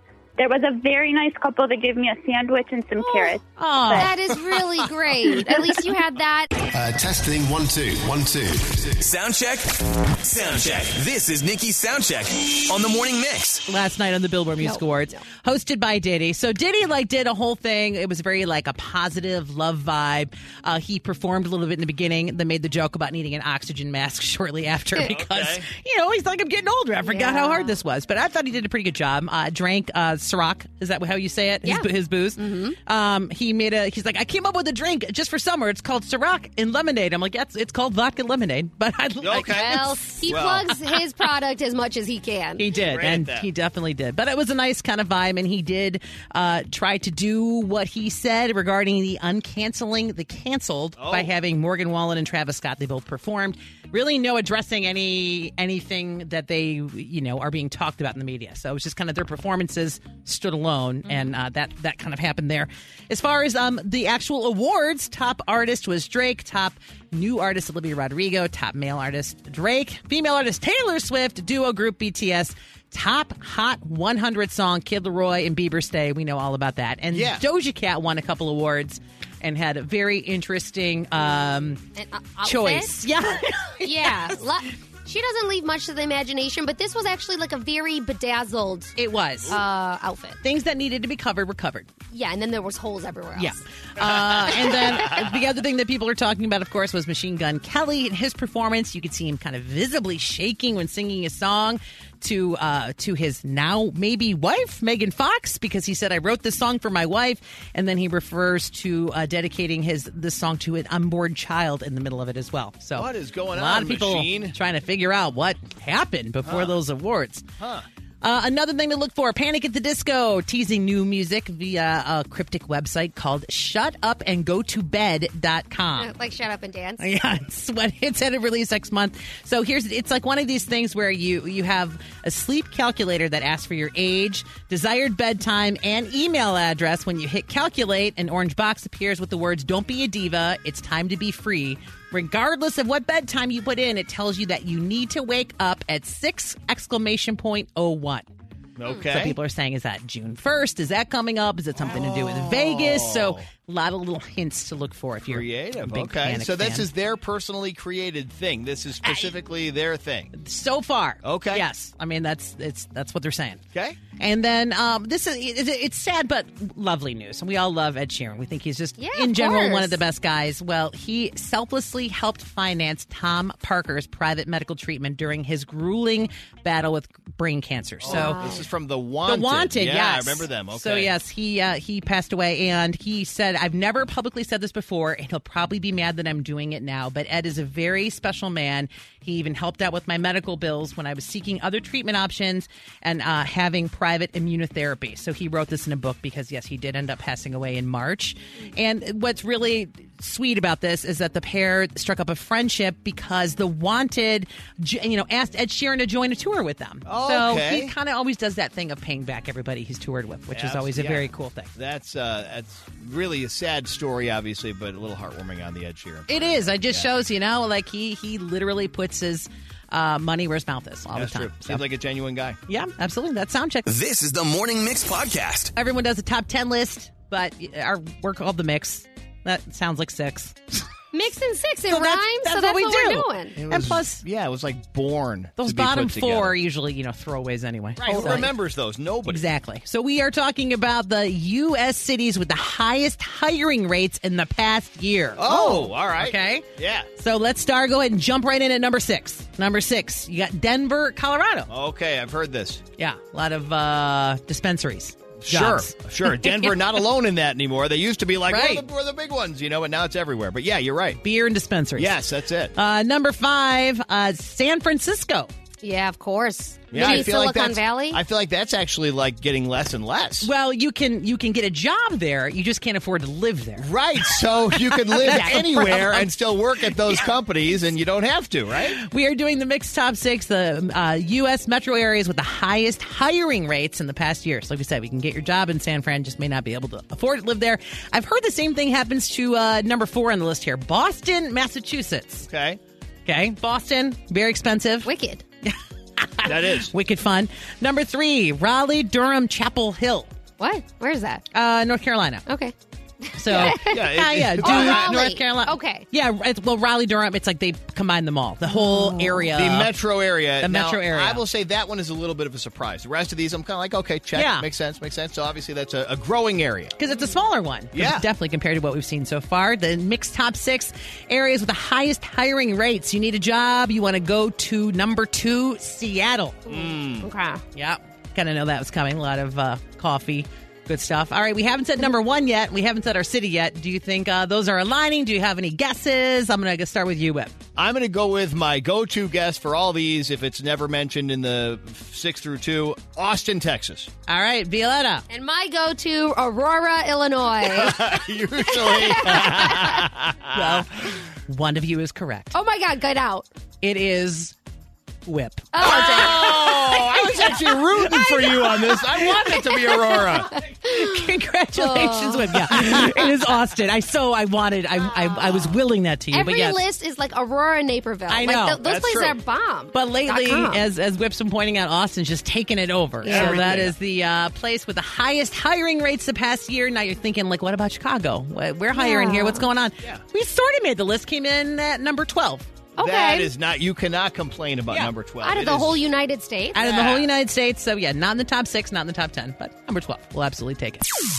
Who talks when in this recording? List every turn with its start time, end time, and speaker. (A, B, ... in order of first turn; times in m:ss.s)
0:00.4-0:04.2 A
0:03.0-0:03.3 B
0:03.6-0:04.1 C
0:03.9-0:06.5 B
0:05.5-0:05.8 A
0:06.7-0:09.0 D
0:09.0-0:13.6 E
0:13.7-0:40.2 C
0:14.6-0:15.2 B
0:25.0-0:25.7 F
0:27.0-0:27.8 B
0:31.6-0:32.8 B
0:39.2-0:40.8 F
0:39.3-0:42.6 B
0:42.6-1:21.8 C
0:42.9-0:43.5 F
0:51.0-0:51.3 F
1:17.1-1:17.4 F
1:22.0-1:23.0 B
1:22.4-1:24.2 C
1:23.8-1:28.9 B
1:29.0-1:29.6 C
1:29.5-1:30.4 B
1:30.4-1:31.9 C
1:32.1-1:33.6 B
1:33.4-1:57.4 C
1:34.3-1:34.6 F
1:34.6-1:35.0 B
1:52.9-1:54.6 F
1:56.4-1:56.8 F
1:57.6-1:57.8 F
1:58.2-2:06.1 C
2:06.0-2:07.0 B
2:07.0-2:28.3 C
2:28.8-2:29.4 F
2:29.1-2:36.9 C
2:31.8-2:33.5 F
2:35.3-2:40.3 F
2:39.0-2:39.3 C
2:40.3-2:43.6 C
2:41.2-2:41.6 F
2:43.7-2:44.0 F
2:44.2-2:58.4 C
2:49.0-2:50.0 B
2:58.0-3:01.1 F
2:58.0-2:58.6 B
2:59.2-3:31.7 C
3:27.0-3:27.9 F
3:30.5-3:37.1 F
3:36.3-3:41.8 C
3:41.1-3:42.6 F
3:42.7-3:43.8 C
3:43.8-3:45.7 E
3:45.8-3:50.6 C
3:51.1-3:53.6 B
3:51.9-3:54.2 C
3:53.6-3:56.6 F
3:55.6-3:58.6 C
3:58.0-3:59.4 F
3:58.1-3:58.3 B
3:59.3-4:06.6 C
4:05.4-4:07.1 F
4:07.2-4:11.7 C
4:11.7-4:12.8 F
4:13.0-4:16.8 C
4:15.4-4:21.2 F
4:18.5-4:18.8 C
4:21.2-4:22.2 C
4:22.0-4:22.7 F
4:22.7-4:25.5 C
4:25.8-4:28.2 B
4:26.9-4:30.5 F
4:26.9-4:27.3 C
4:30.4-4:33.9 C
4:33.8-4:39.0 F
4:34.7-4:36.3 C
4:35.3-4:35.6 B
4:36.9-4:37.2 C
4:39.0-4:52.5 C
4:52.4-4:52.8 F
4:53.2-4:55.1 C
4:55.0-4:55.4 B
4:55.6-5:00.3 C
4:56.4-4:56.9 F
5:00.6-5:01.4 B
5:01.5-5:02.5 C
5:02.5-5:04.0 B
5:03.3-5:09.9 C
5:03.5-5:05.3 F
5:04.6-5:06.1 B
5:08.7-5:09.3 B
5:09.5-5:16.9 F
5:10.6-5:11.4 C
5:14.3-5:14.7 C
5:17.0-5:26.6 C
5:17.9-5:18.3 F
5:26.6-5:27.6 B
5:26.7-5:27.3 F
5:27.7-5:37.5 C
5:37.8-5:44.1 F
5:44.3-5:45.2 C
5:45.3-5:50.1 B
5:47.6-5:51.2 F
5:50.5-5:52.6 C
5:52.5-5:53.5 B
5:53.8-5:54.5 C
5:55.2-5:56.0 C
5:55.7-6:01.2 B
5:55.8-6:00.6 F
6:00.8-6:06.8 C
6:01.8-6:03.3 B
6:05.0-6:05.8 B
6:06.3-6:10.8 B
6:08.3-6:08.8 C
6:08.8-6:09.4 F
6:09.9-6:22.7 C
6:13.2-6:13.7 B
6:13.2-6:13.9 F
6:18.9-6:19.6 B
6:23.0-6:23.5 B
6:23.0-6:26.0 F
6:25.4-6:26.8 B
6:26.7-6:31.0 C
6:26.8-6:27.3 F